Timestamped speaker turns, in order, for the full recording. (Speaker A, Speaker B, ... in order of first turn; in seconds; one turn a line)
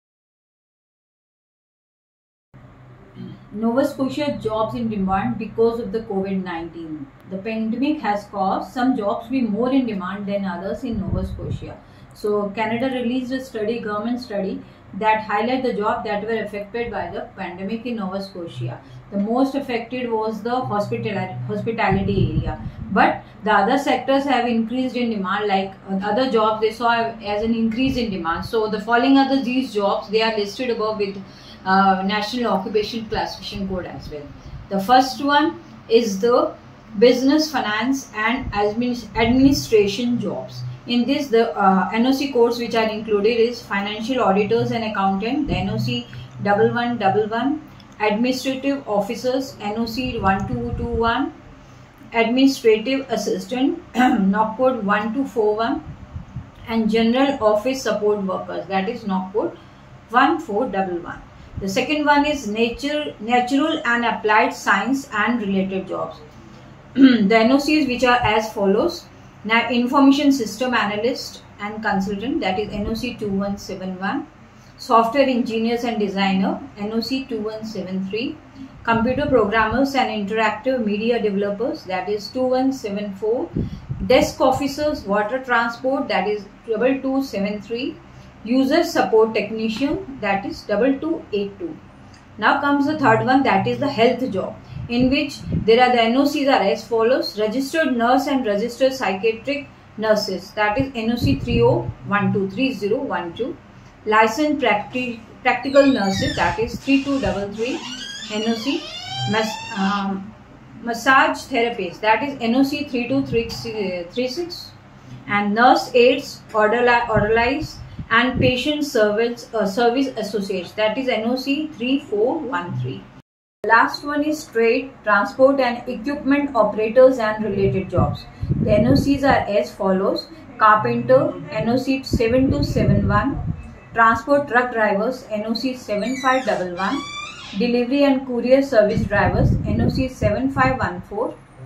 Speaker A: 3.3-51.3
Speaker A: 52.1-55.8
Speaker A: 56.7-59.6
Speaker A: 60.1-66.2
Speaker A: 66.9-74.2
Speaker A: 74.8-91.8
Speaker A: 92.4-114.8
Speaker A: 115.3-123.0
Speaker A: 123.6-133.4
Speaker A: 133.9-141.3